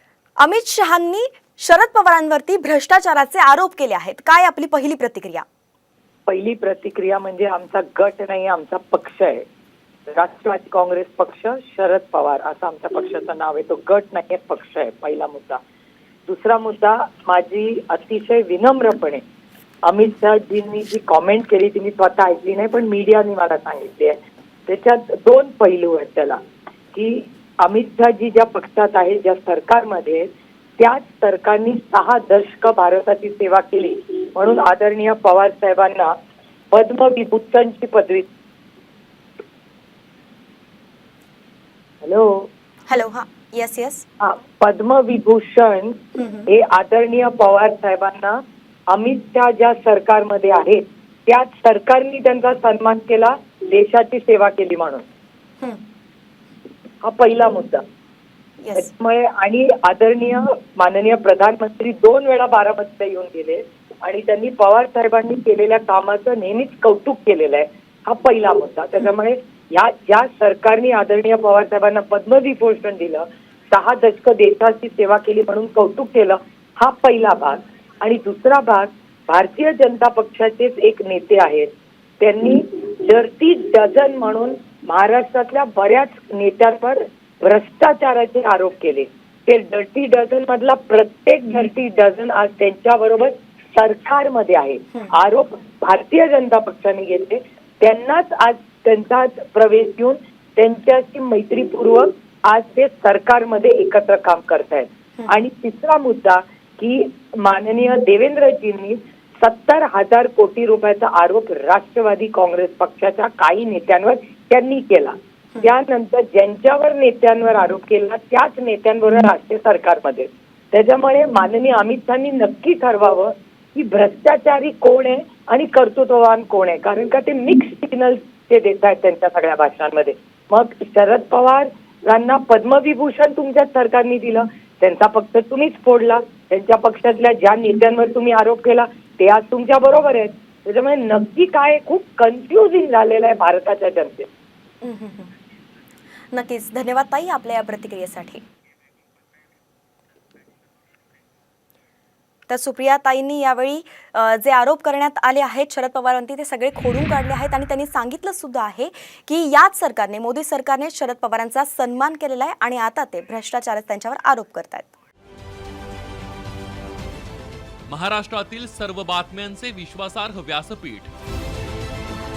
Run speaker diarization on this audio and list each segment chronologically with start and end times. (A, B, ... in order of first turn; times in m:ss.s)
0:00.4-0:05.4 A
0:06.3-0:09.4 B
0:10.1-0:15.6 B
0:16.2-0:19.2 B
0:19.8-0:26.4 B
0:26.9-0:30.3 B
0:30.8-0:36.1 B
0:36.7-0:38.3 B
0:42.0-0:42.5 B
0:42.9-0:44.0 A
0:44.2-0:45.9 B
0:46.2-0:46.5 A
0:46.5-0:48.4 B
0:48.9-0:55.0 B
0:57.0-0:57.8 B
0:58.6-0:58.9 A
0:58.7-1:21.7 B
1:22.2-2:24.3 B
2:24.8-2:25.3 A
2:26.3-2:28.4 A
2:32.5-2:44.9 A
2:47.9-2:51.1 C